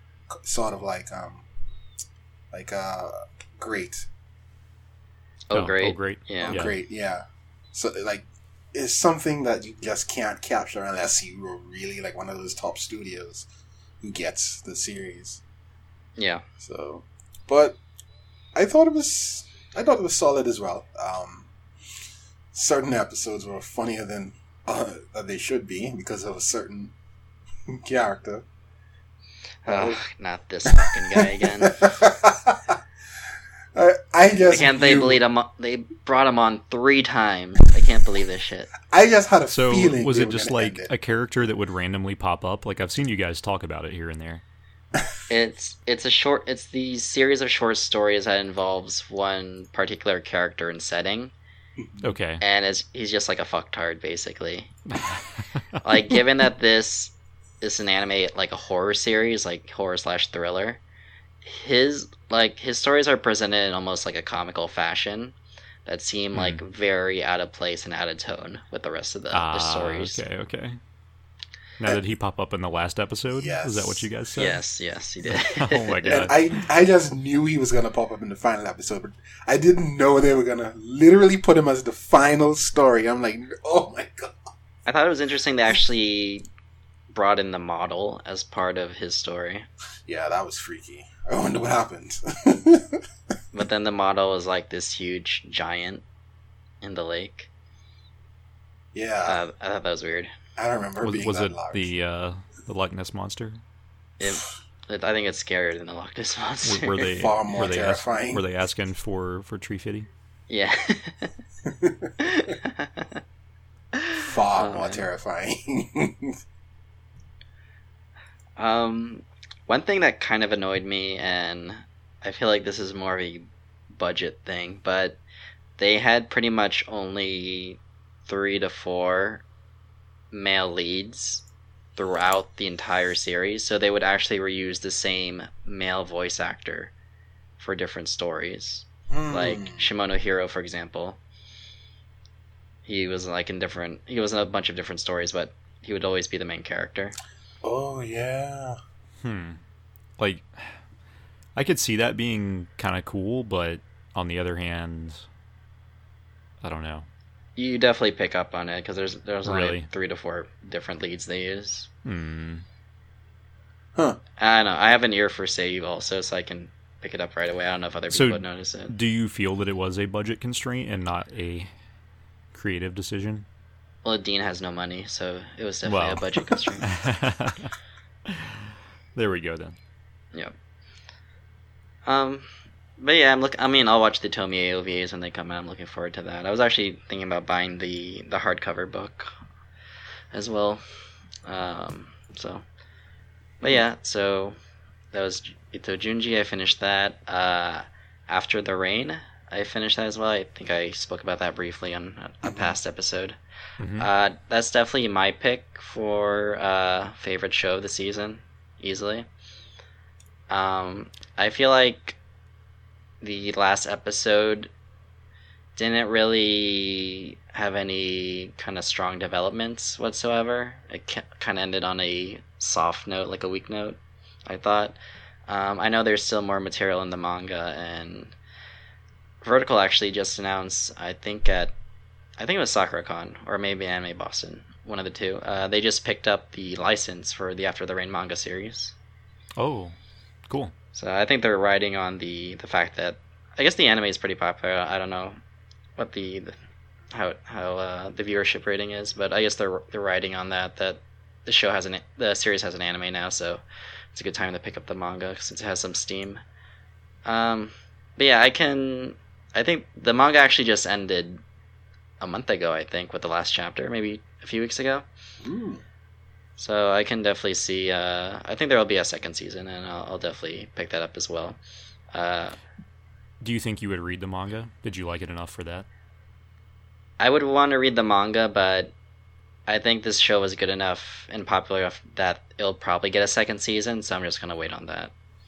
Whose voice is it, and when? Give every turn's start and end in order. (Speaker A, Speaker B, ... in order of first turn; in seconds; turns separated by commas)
Speaker A: 0.3-1.4, Speaker A: 2.5-4.1, Speaker B: 5.5-6.6, Speaker C: 5.5-6.8, Speaker A: 6.4-13.4, Speaker A: 14.0-15.4, Speaker B: 16.2-16.4, Speaker A: 16.6-17.8, Speaker A: 18.5-21.5, Speaker A: 22.5-26.9, Speaker A: 27.7-28.4, Speaker B: 29.6-31.9, Speaker A: 29.6-30.0, Speaker A: 30.7-32.8, Speaker A: 33.7-35.2, Speaker B: 34.5-38.7, Speaker A: 38.8-40.9, Speaker C: 39.5-44.4, Speaker B: 45.3-51.3, Speaker A: 51.8-52.1, Speaker C: 52.0-52.4, Speaker B: 52.4-54.7, Speaker C: 54.9-55.4, Speaker B: 55.8-60.8, Speaker B: 61.4-70.2, Speaker C: 66.3-66.6, Speaker C: 69.3-70.8, Speaker C: 71.8-74.6, Speaker A: 73.3-74.4, Speaker B: 74.4-76.3, Speaker C: 75.2-76.4, Speaker A: 76.1-84.5, Speaker B: 84.8-86.5, Speaker B: 87.1-89.7, Speaker A: 90.1-93.0, Speaker B: 93.5-96.0, Speaker B: 96.8-97.5, Speaker A: 98.9-99.4, Speaker B: 99.2-100.3, Speaker A: 100.5-101.9, Speaker C: 101.0-103.6, Speaker B: 104.2-107.1, Speaker C: 106.6-110.1, Speaker A: 107.1-108.4, Speaker B: 110.5-111.3, Speaker A: 111.7-112.1, Speaker B: 112.2-113.2, Speaker B: 114.0-115.0, Speaker A: 114.2-116.3, Speaker B: 118.6-125.2, Speaker B: 125.8-129.4, Speaker B: 130.3-131.4, Speaker B: 132.0-136.9, Speaker B: 137.6-141.2, Speaker A: 139.1-139.9, Speaker B: 142.8-147.2, Speaker A: 147.6-148.8, Speaker C: 149.2-149.6, Speaker C: 150.2-150.8, Speaker C: 151.6-155.2, Speaker C: 156.6-157.1, Speaker B: 157.6-161.9, Speaker C: 159.4-159.9, Speaker C: 162.0-162.6, Speaker B: 164.4-168.9, Speaker C: 168.1-171.7, Speaker C: 172.5-173.4, Speaker B: 174.0-176.9, Speaker C: 175.8-176.2, Speaker C: 176.8-177.7, Speaker C: 178.3-179.8, Speaker B: 182.1-189.3, Speaker B: 190.3-190.8, Speaker B: 191.4-192.6, Speaker B: 193.6-194.6, Speaker B: 195.1-203.4, Speaker A: 202.4-202.8, Speaker C: 203.8-204.1, Speaker B: 204.0-209.3, Speaker B: 210.5-212.2, Speaker B: 213.2-214.7, Speaker B: 215.8-228.3, Speaker B: 229.4-231.7, Speaker B: 232.4-238.9, Speaker C: 239.6-239.9, Speaker B: 240.9-245.4, Speaker B: 246.0-246.5, Speaker B: 247.1-256.4, Speaker B: 257.2-261.4, Speaker B: 262.2-265.1, Speaker A: 265.4-265.8, Speaker B: 266.6-271.6, Speaker B: 272.1-272.6, Speaker C: 273.4-275.9, Speaker B: 277.2-278.9, Speaker B: 279.7-285.1